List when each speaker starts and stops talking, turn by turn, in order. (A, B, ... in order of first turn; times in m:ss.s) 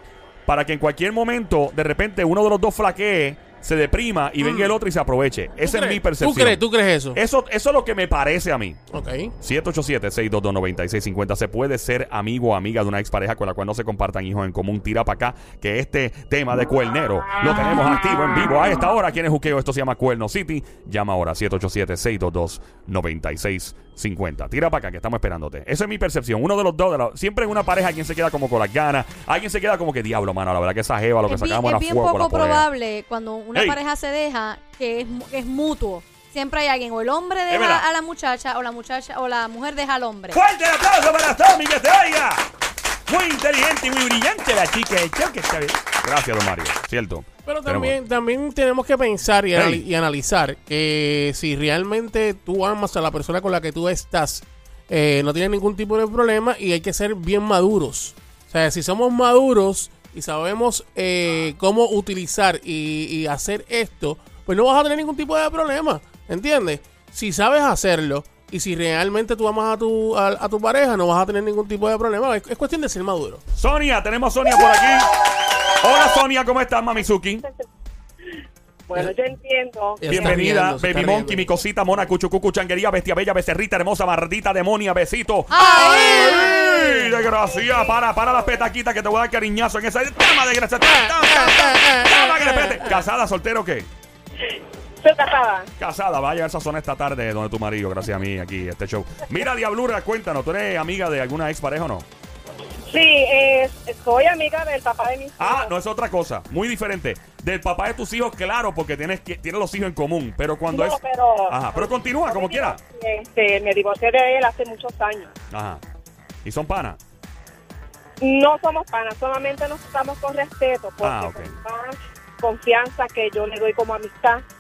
0:00.5-0:06.6 A
0:04.4-0:04.7 B
0:05.6-0:07.2 B
0:07.2-0:08.8 A
0:09.0-0:09.3 B
0:09.4-0:32.7 A
0:31.2-0:40.4 C
0:33.5-0:33.8 A
0:37.5-0:37.9 A
0:40.3-0:42.4 A
0:43.1-0:48.0 A
0:47.5-1:13.4 B
0:49.5-0:49.9 A
1:03.7-1:04.0 D
1:04.7-1:05.2 D
1:05.8-1:06.2 D
1:13.6-1:15.1 A
1:15.8-1:17.4 A
1:19.1-1:20.4 D
1:20.0-1:21.5 B
1:20.1-1:33.9 A
1:25.5-1:27.0 C
1:25.8-1:26.2 B
1:25.8-1:26.8 D
1:35.0-1:35.6 D
1:35.8-1:42.1 A
1:42.9-1:45.6 D
1:45.4-1:52.8 A
1:50.8-1:51.8 D
1:52.4-1:55.3 D
1:55.5-1:55.8 A
1:56.4-1:57.0 A
1:58.2-2:04.4 D
2:01.0-2:01.6 A